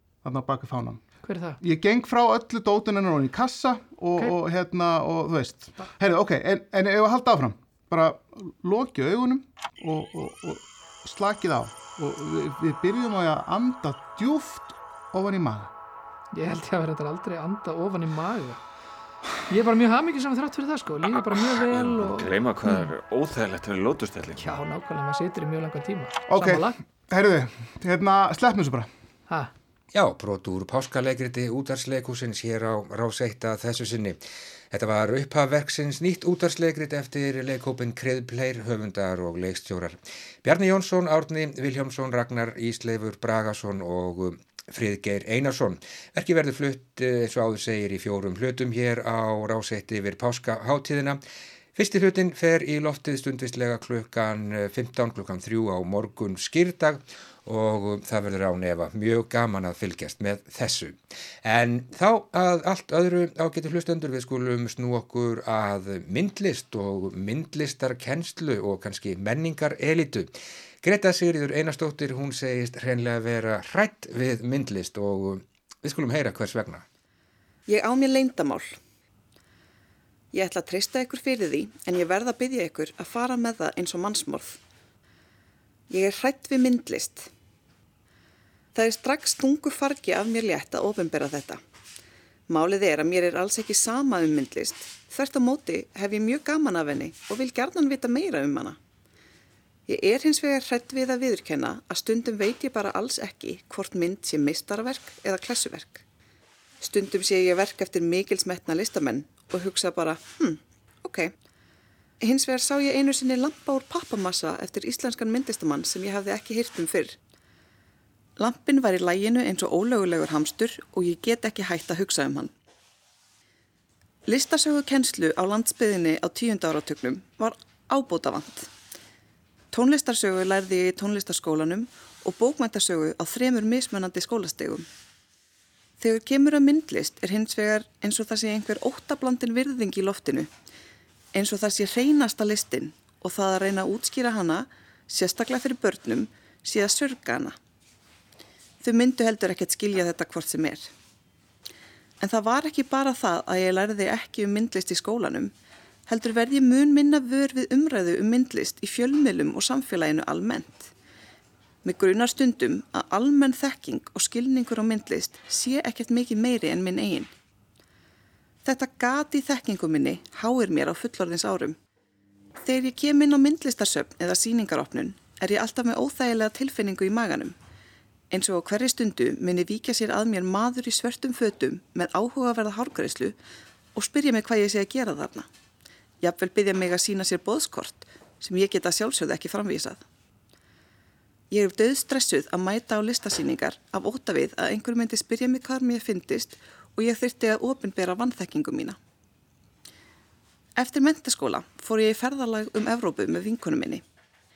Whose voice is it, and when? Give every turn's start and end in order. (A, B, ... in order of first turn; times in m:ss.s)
0:00.2-0:01.0 A
0:01.2-0:01.6 B
0:01.6-0:15.7 A
0:16.3-0:18.6 B
0:19.5-0:22.9 B
0:21.1-0:24.6 C
0:24.3-0:26.8 B
0:26.3-0:28.9 A
0:29.9-0:51.2 D
0:51.7-1:16.8 D
1:17.7-1:18.8 E
1:20.3-1:24.6 E
1:25.9-1:27.3 E
1:28.7-1:31.6 E
1:32.5-1:38.8 E
1:39.9-1:46.0 E
1:46.8-1:51.3 E
1:52.2-1:57.2 E
1:58.4-2:02.5 E
2:04.3-2:08.7 E
2:09.7-2:14.8 E
2:16.0-2:20.5 E
2:21.3-2:27.6 E
2:28.8-2:30.9 E
2:32.2-2:35.5 E
2:36.1-2:40.9 E
2:41.8-2:47.3 E
2:48.6-2:51.8 E
2:52.6-2:57.6 E
2:58.3-3:03.4 E
3:03.9-3:05.5 E
3:06.2-3:10.0 E
3:11.5-3:19.0 E
3:20.8-3:24.0 E